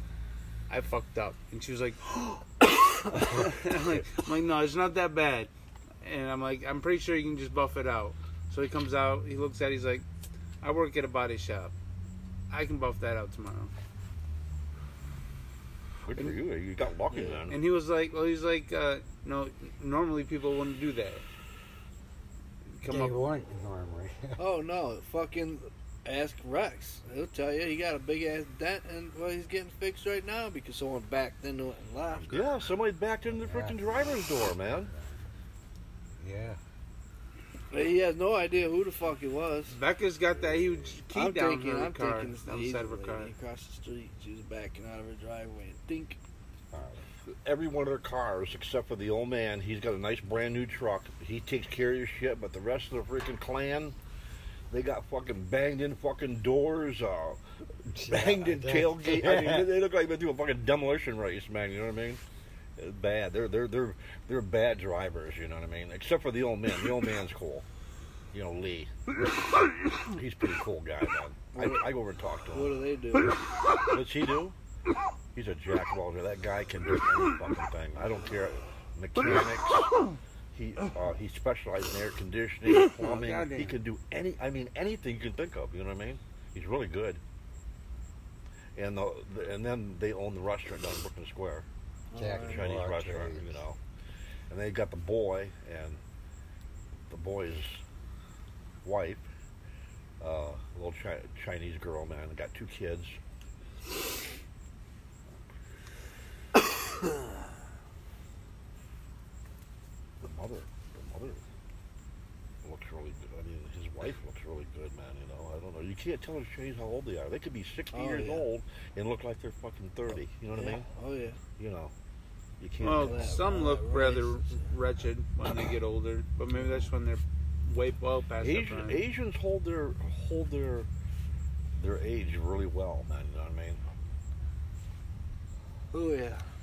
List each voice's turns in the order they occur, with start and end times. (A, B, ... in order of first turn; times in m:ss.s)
0:00.7-0:02.4 A
0:03.3-0:05.5 A
0:06.0-0:10.0 A
0:10.6-0:11.7 A
0:12.5-0:13.7 A
0:16.0-0:17.6 B
0:17.1-0:17.4 C
0:17.5-0:21.2 A
0:22.7-0:23.2 A
0:22.8-0:24.4 D
0:24.4-0:32.4 C
0:32.3-0:34.9 B
0:33.2-0:35.2 D
0:36.2-0:36.6 D
0:37.7-0:39.7 C
0:39.7-0:43.3 A
0:40.5-0:40.9 D
0:41.1-0:46.2 C
0:46.7-0:47.0 D
0:47.4-0:54.0 B
0:54.7-0:57.4 B
0:57.9-0:59.7 D
0:58.0-1:02.2 B
1:02.8-1:07.6 B
1:08.3-1:08.9 B
1:10.1-1:12.8 B
1:11.5-1:11.9 C
1:12.5-1:13.4 C
1:13.9-1:14.6 B
1:15.3-1:19.9 B
1:20.5-1:27.2 B
1:22.9-1:23.7 A
1:28.8-1:31.6 B
1:32.1-1:32.7 C
1:32.1-1:33.6 D
1:32.4-1:33.8 B
1:34.5-1:36.0 B
1:37.1-1:37.8 B
1:38.8-1:39.2 B
1:40.2-1:43.2 B
1:50.2-1:51.4 B
1:52.6-2:00.9 B
1:57.9-1:58.5 C
2:00.5-2:01.4 C
2:01.6-2:01.9 B
2:02.6-2:03.4 B
2:02.8-2:09.0 A
2:02.9-2:04.6 C
2:08.4-2:10.9 B
2:11.7-2:13.8 B
2:15.9-2:16.4 C